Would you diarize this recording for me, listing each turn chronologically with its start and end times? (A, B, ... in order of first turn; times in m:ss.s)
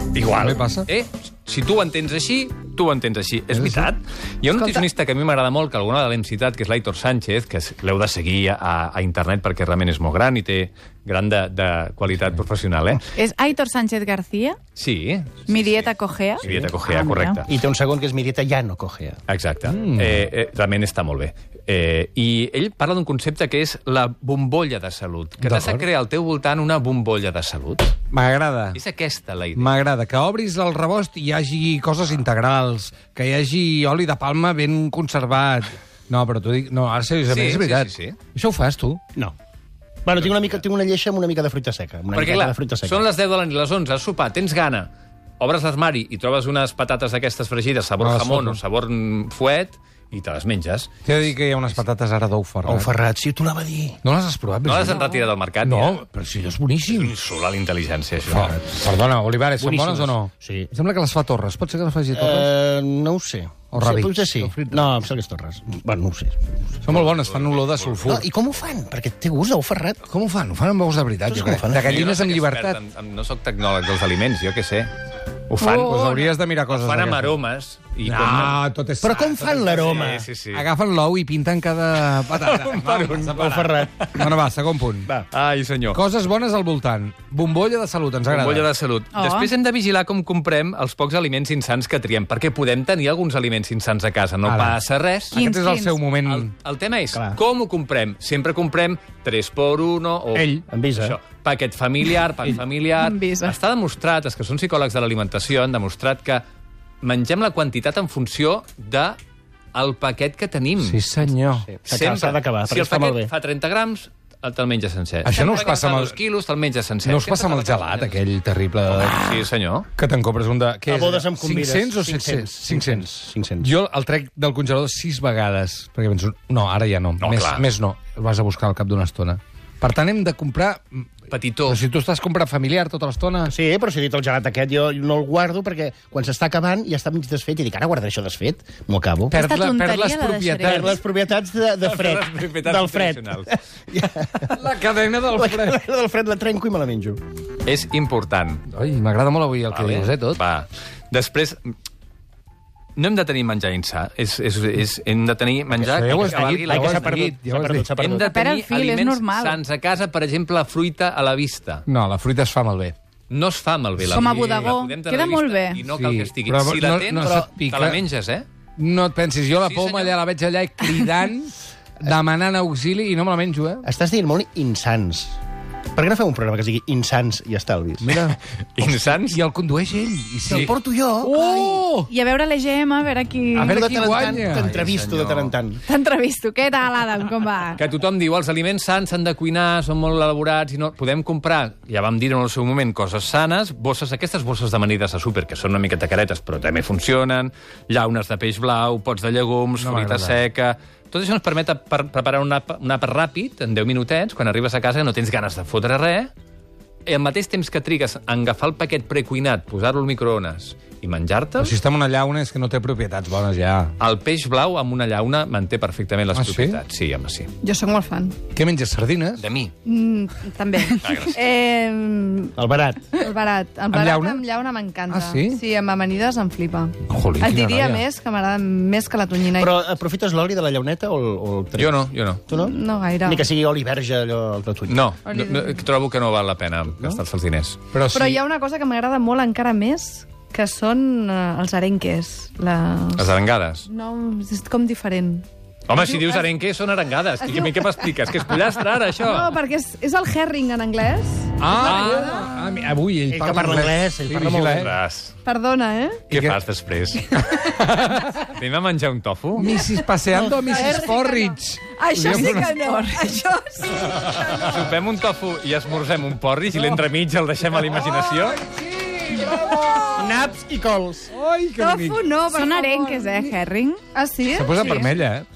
0:00.1-0:13.1 A
0:00.3-0:00.9 B
0:03.5-0:03.9 B
0:13.1-0:14.6 C
0:14.8-0:17.5 A
0:15.5-0:17.4 C
0:17.5-0:19.2 D
0:19.3-0:27.9 A
0:19.7-0:20.2 B
0:25.4-0:25.8 B
0:28.1-0:28.8 B
0:28.7-0:29.8 A
0:29.6-0:39.0 B
0:37.3-0:38.2 A
0:40.0-0:43.1 D
0:40.2-0:40.6 A
0:42.1-0:50.9 A
0:48.0-0:48.6 B
0:51.0-0:52.9 B
0:52.7-0:54.0 D
0:54.0-0:55.0 B
0:54.6-0:56.0 A
0:55.6-0:57.2 B
0:56.9-0:58.7 A
0:58.2-1:02.5 B
0:59.6-1:00.7 D
1:02.2-1:06.5 D
1:03.7-1:05.0 B
1:06.8-1:08.3 B
1:06.9-1:08.3 A
1:08.0-1:10.0 D
1:10.1-1:12.8 B
1:11.3-1:12.0 D
1:11.8-1:14.9 A
1:15.5-1:16.0 A
1:15.6-1:17.4 B
1:15.6-1:16.3 C
1:16.7-1:18.6 A
1:18.0-1:25.1 B
1:19.0-1:20.3 D
1:19.4-1:20.7 A
1:22.3-1:24.3 A
1:23.3-1:24.1 D
1:25.3-1:26.0 A
1:25.9-1:28.7 B
1:28.3-1:35.4 A
1:29.1-1:29.5 C
1:34.4-1:34.8 B
1:35.3-1:36.5 B
1:35.3-1:36.0 C
1:36.2-1:46.4 A
1:37.1-1:37.4 D
1:40.3-1:40.6 B
1:40.7-1:41.2 D
1:43.0-1:43.6 C
1:47.0-1:49.2 A
1:49.7-1:51.0 A
1:50.8-1:51.7 B
1:51.7-1:53.3 D
1:51.8-1:58.2 A
1:55.2-1:56.2 B
1:55.3-1:55.7 E
1:57.0-2:03.1 B
1:58.9-1:59.9 A
2:00.9-2:03.7 D
2:03.6-2:11.1 B
2:07.2-2:07.6 A
2:11.3-2:11.8 A
2:11.7-2:13.5 B
2:13.5-2:19.4 D
2:19.3-2:21.0 C
2:19.3-2:21.0 B
2:20.6-2:24.6 D
2:21.8-2:23.5 A
2:24.5-2:25.8 B
2:25.3-2:27.2 D
2:27.6-2:28.6 A
2:28.7-2:30.4 B
2:29.7-2:31.7 A
2:33.0-2:37.2 A
2:35.8-2:37.9 B
2:36.2-2:38.4 D
2:38.0-2:41.8 A
2:38.2-2:39.6 C
2:41.9-2:43.0 B
2:43.3-2:48.5 A
2:44.0-2:45.8 C
2:45.9-2:48.0 B
2:48.8-2:53.9 B
2:49.6-2:50.2 A
2:53.8-2:55.4 D
2:56.0-2:58.3 D
2:58.0-2:58.4 B
2:58.8-2:59.4 A
2:59.1-3:02.1 B
3:00.5-3:01.4 D
3:01.4-3:04.3 C
3:03.6-3:04.8 B
3:03.6-3:05.8 D
3:04.6-3:05.5 A
3:05.9-3:07.8 C
3:07.8-3:26.3 A
3:19.8-3:20.4 B
3:27.1-3:31.8 A
3:31.6-3:33.9 B
3:34.0-3:37.5 A
3:36.3-3:36.8 B
3:37.6-3:38.4 E
3:38.5-3:39.4 B
3:39.4-3:39.7 A
3:39.8-3:42.6 E
3:41.0-3:41.4 A
3:42.6-3:43.1 D
3:43.1-3:49.8 E
3:43.9-3:44.4 B
3:45.1-3:45.6 B
3:47.1-3:48.0 B
3:49.6-3:52.7 D
3:51.8-3:52.4 A
3:52.5-3:53.4 E
3:53.2-3:55.1 D
3:54.9-3:57.8 A
3:55.3-3:55.8 E
3:57.9-3:58.4 B
3:58.1-4:03.3 E
4:03.2-4:03.9 A
4:03.9-4:06.5 E
4:05.9-4:09.5 A
4:07.5-4:07.9 E
4:09.2-4:12.6 E
4:11.6-4:14.9 B
4:11.8-4:12.4 A
4:13.3-4:15.0 D
4:14.7-4:15.3 A
4:15.4-4:16.2 E
4:16.3-4:16.6 B
4:16.3-4:17.3 A
4:17.5-4:18.4 B
4:18.5-4:19.7 A
4:19.6-4:22.7 B
4:20.3-4:21.2 D
4:20.8-4:21.4 E
4:22.0-4:24.6 E
4:22.1-4:23.4 C
4:24.2-4:28.6 A
4:26.7-4:27.0 B
4:28.0-4:30.3 B
4:30.1-4:31.3 D
4:31.3-4:32.3 B
4:31.8-4:33.6 E
4:32.5-4:34.0 C
4:34.1-4:35.0 E
4:34.5-4:35.5 B
4:34.8-4:35.1 C